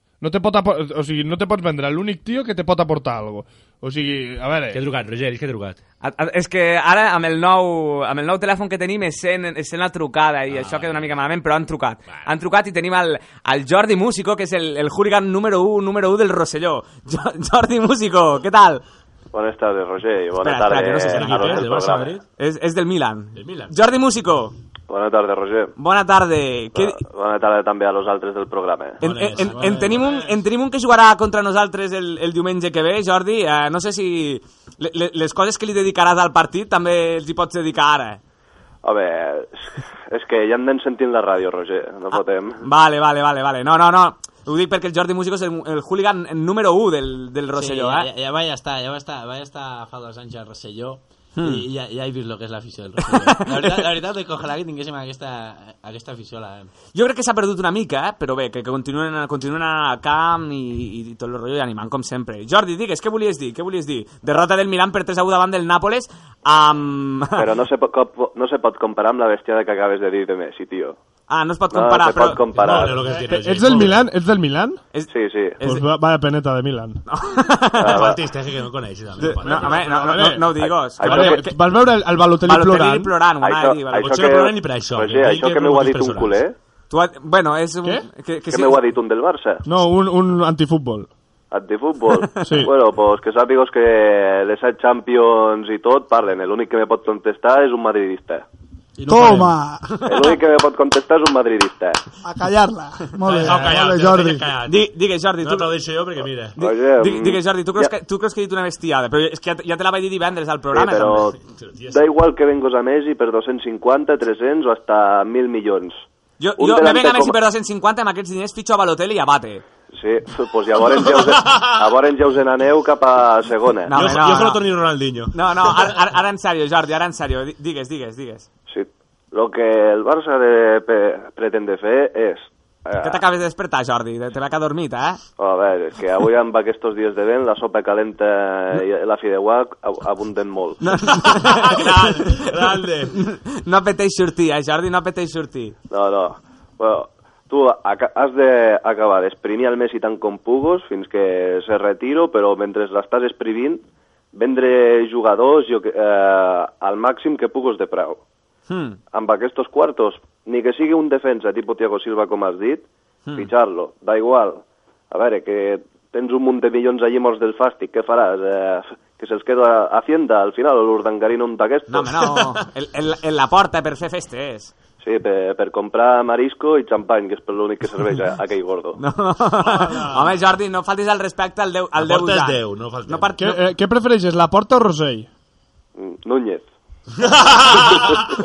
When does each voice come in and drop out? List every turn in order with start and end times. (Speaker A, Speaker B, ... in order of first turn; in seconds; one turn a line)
Speaker A: 0.2-4.8
Speaker B: 4.7-5.8
Speaker C: 6.0-18.8
Speaker B: 10.5-11.2
Speaker D: 19.3-22.2
Speaker C: 20.4-21.7
Speaker B: 21.1-22.2
Speaker C: 22.4-24.6
Speaker B: 23.4-23.7
Speaker D: 24.9-25.7
Speaker C: 25.8-27.0
Speaker D: 26.7-29.0
Speaker B: 29.0-30.2
Speaker C: 29.0-38.2
Speaker E: 29.4-30.1
Speaker D: 38.8-42.6
Speaker C: 42.6-48.1
Speaker E: 47.5-56.7
Speaker C: 51.4-51.7
Speaker C: 53.0-53.9
Speaker C: 56.9-67.5
Speaker D: 67.3-71.0
Speaker C: 71.3-72.4
Speaker D: 71.7-73.2
Speaker B: 72.5-74.0
Speaker A: 73.1-74.8
Speaker C: 74.9-75.8
Speaker D: 75.1-75.6
Speaker A: 75.6-77.0
Speaker C: 77.1-78.1
Speaker D: 77.8-78.2
Speaker B: 77.8-80.3
Speaker C: 79.2-81.5
Speaker A: 79.2-83.1
Speaker D: 81.0-81.4
Speaker C: 82.4-84.2
Speaker D: 83.4-86.5
Speaker B: 84.0-86.4
Speaker C: 86.9-88.8
Speaker D: 88.5-89.6
Speaker A: 89.7-91.1
Speaker D: 91.5-98.5
Speaker A: 92.4-92.7
Speaker A: 99.1-99.5
Speaker F: 99.1-99.9
Speaker D: 100.0-102.0
Speaker F: 102.2-104.5
Speaker B: 103.3-104.9
Speaker C: 104.7-105.7
Speaker B: 105.4-106.6
Speaker D: 106.6-107.9
Speaker C: 106.6-111.3
Speaker D: 110.7-111.4
Speaker B: 111.5-112.1
Speaker D: 111.9-116.0
Speaker C: 116.4-119.6
Speaker D: 116.6-117.4
Speaker D: 119.9-123.9
Speaker B: 121.1-121.7
Speaker C: 123.9-124.7
Speaker B: 123.9-126.0
Speaker C: 125.3-128.5
Speaker D: 128.7-133.2
Speaker C: 133.0-135.2
Speaker D: 135.4-140.8
Speaker C: 140.8-145.8
Speaker B: 141.1-143.2
Speaker D: 145.9-153.8
Speaker D: 154.3-158.2
Speaker C: 158.7-159.0
Speaker D: 159.1-162.8
Speaker D: 163.3-172.2
Speaker C: 171.9-174.7
Speaker D: 175.0-179.0
Speaker C: 179.0-183.6
Speaker A: 179.8-180.2
Speaker B: 182.0-183.3
Speaker A: 183.4-185.3
Speaker D: 186.0-186.7
Speaker B: 187.2-188.2